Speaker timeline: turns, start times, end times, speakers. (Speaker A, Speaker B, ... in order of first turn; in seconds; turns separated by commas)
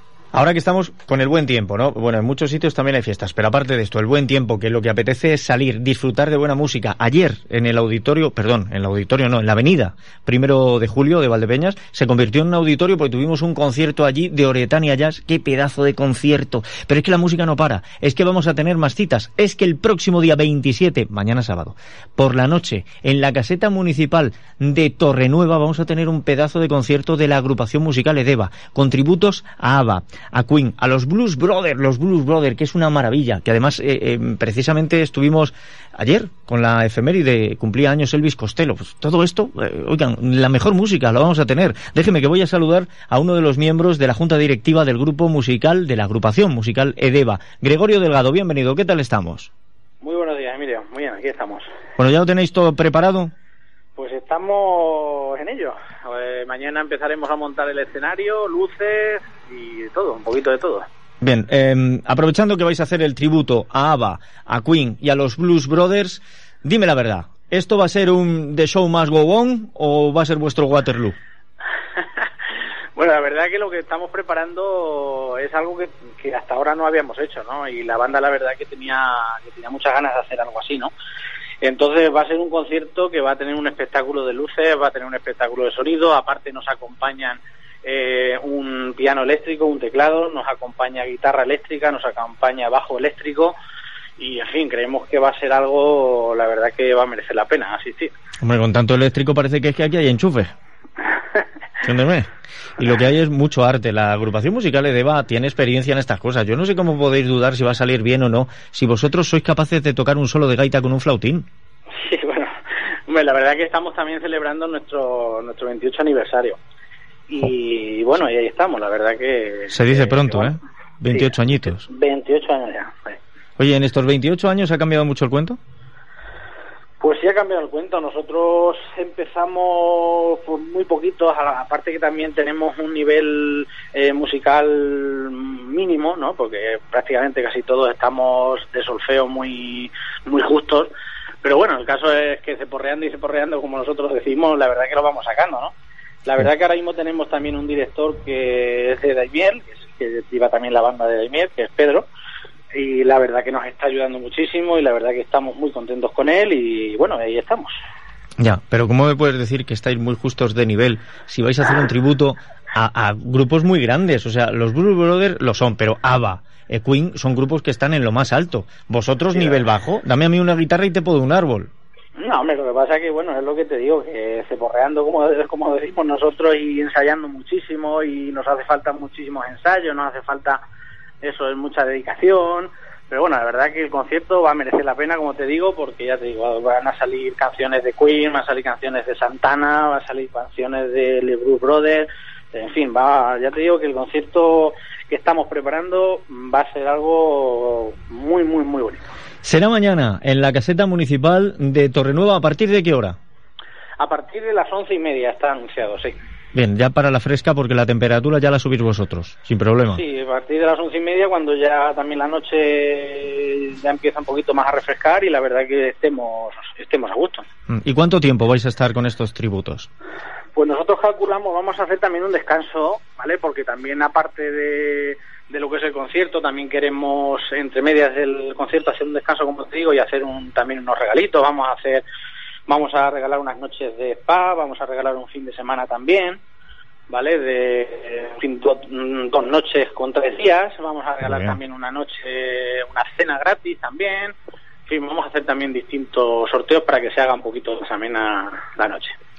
Speaker A: 0.3-49.5, Speaker B: 50.0-51.7, Speaker A: 52.0-53.3, Speaker B: 54.0-60.9, Speaker A: 61.2-71.2, Speaker B: 73.0-80.9, Speaker B: 81.6-93.5, Speaker B: 94.2-98.1, Speaker A: 98.4-100.5, Speaker A: 101.8-111.5, Speaker B: 112.0-112.5, Speaker B: 113.1-116.6, Speaker B: 117.3-120.5, Speaker A: 119.7-121.9, Speaker B: 121.1-123.2, Speaker A: 123.6-125.6, Speaker B: 127.0-140.9, Speaker B: 141.4-145.7, Speaker B: 146.2-152.1, Speaker B: 152.7-157.7, Speaker A: 158.4-171.7, Speaker B: 172.2-180.6, Speaker B: 181.2-199.0, Speaker A: 199.4-203.2, Speaker B: 204.0-206.1, Speaker A: 206.5-210.0, Speaker B: 209.9-217.4, Speaker A: 217.7-219.9, Speaker B: 220.5-232.0, Speaker B: 232.7-236.4, Speaker B: 237.1-244.3, Speaker A: 241.2-241.6, Speaker B: 244.9-249.1